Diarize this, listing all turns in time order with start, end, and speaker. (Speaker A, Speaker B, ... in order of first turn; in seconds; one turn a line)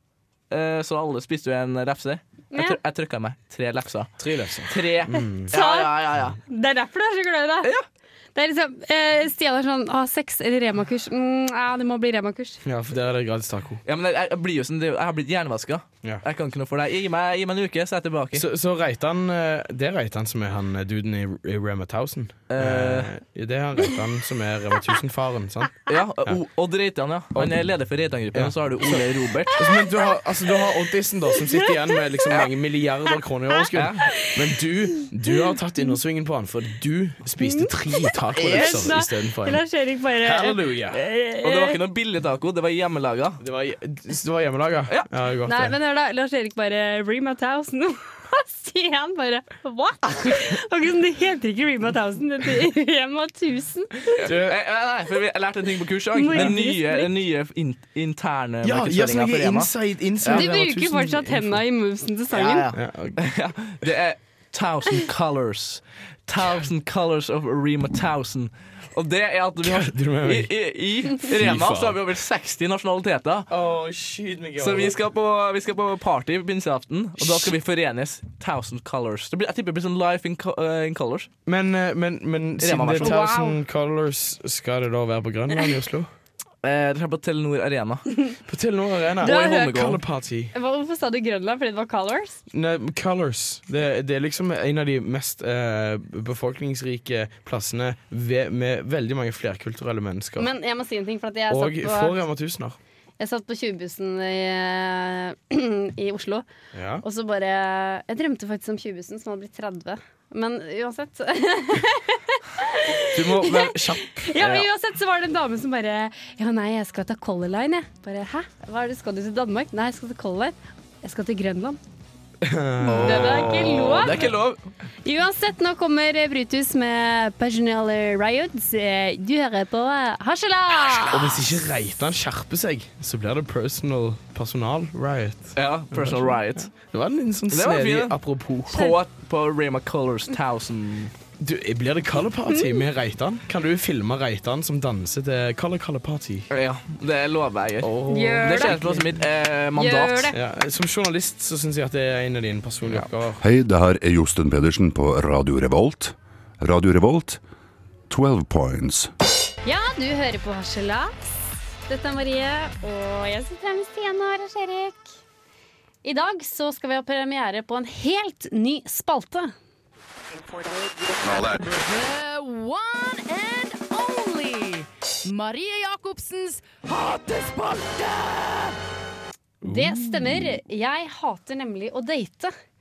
Speaker A: 0.5-4.1
Speaker B: 2.5-2.8
Speaker C: 4.2-5.5
Speaker A: 4.7-6.4
Speaker B: 5.5-7.7
Speaker B: 8.3-12.6
Speaker C: 12.6-13.8
Speaker A: 13.8-18.4
Speaker C: 18.3-26.4
Speaker A: 22.5-23.1
Speaker A: 25.9-29.6
Speaker C: 27.3-27.7
Speaker C: 28.3-39.6
Speaker B: 29.6-30.0
Speaker B: 31.4-31.7
Speaker A: 33.7-34.1
Speaker B: 34.1-34.4
Speaker B: 35.0-35.3
Speaker B: 37.4-41.8
Speaker A: 38.4-38.9
Speaker C: 40.2-41.0
Speaker A: 41.4-43.4
Speaker C: 43.4-45.8
Speaker B: 45.4-54.2
Speaker A: 54.1-60.5
Speaker C: 54.2-54.6
Speaker B: 56.1-57.1
Speaker C: 58.6-61.6
Speaker B: 60.3-62.7
Speaker A: 62.3-73.5
Speaker C: 62.7-63.2
Speaker C: 69.6-70.5
Speaker C: 71.2-72.0
Speaker C: 73.5-75.0
Speaker A: 74.6-81.3
Speaker C: 77.2-77.5
Speaker C: 81.5-86.1
Speaker A: 82.6-83.2
Speaker B: 83.0-83.6
Speaker A: 86.6-88.1
Speaker C: 88.5-90.5
Speaker A: 89.2-90.0
Speaker B: 89.2-89.8
Speaker B: 90.5-92.4
Speaker C: 92.5-100.5
Speaker B: 100.4-102.2
Speaker C: 101.5-102.8
Speaker B: 103.2-106.5
Speaker C: 106.7-107.0
Speaker B: 107.0-121.8
Speaker C: 113.1-114.7
Speaker C: 122.4-124.3
Speaker A: 122.8-124.6
Speaker B: 122.9-124.3
Speaker B: 125.0-131.4
Speaker C: 131.1-138.9
Speaker A: 135.6-136.7
Speaker A: 137.5-138.2
Speaker A: 138.7-141.1
Speaker C: 141.4-146.5
Speaker B: 142.5-142.8
Speaker A: 146.5-150.3
Speaker C: 147.8-149.1
Speaker B: 148.1-148.8
Speaker B: 149.8-150.4
Speaker C: 150.3-153.4
Speaker D: 153.4-157.4
Speaker D: 158.1-159.1
Speaker B: 159.6-161.3
Speaker B: 161.9-165.1
Speaker B: 166.0-169.5
Speaker E: 171.4-178.8
Speaker C: 179.6-180.5
Speaker B: 179.6-182.5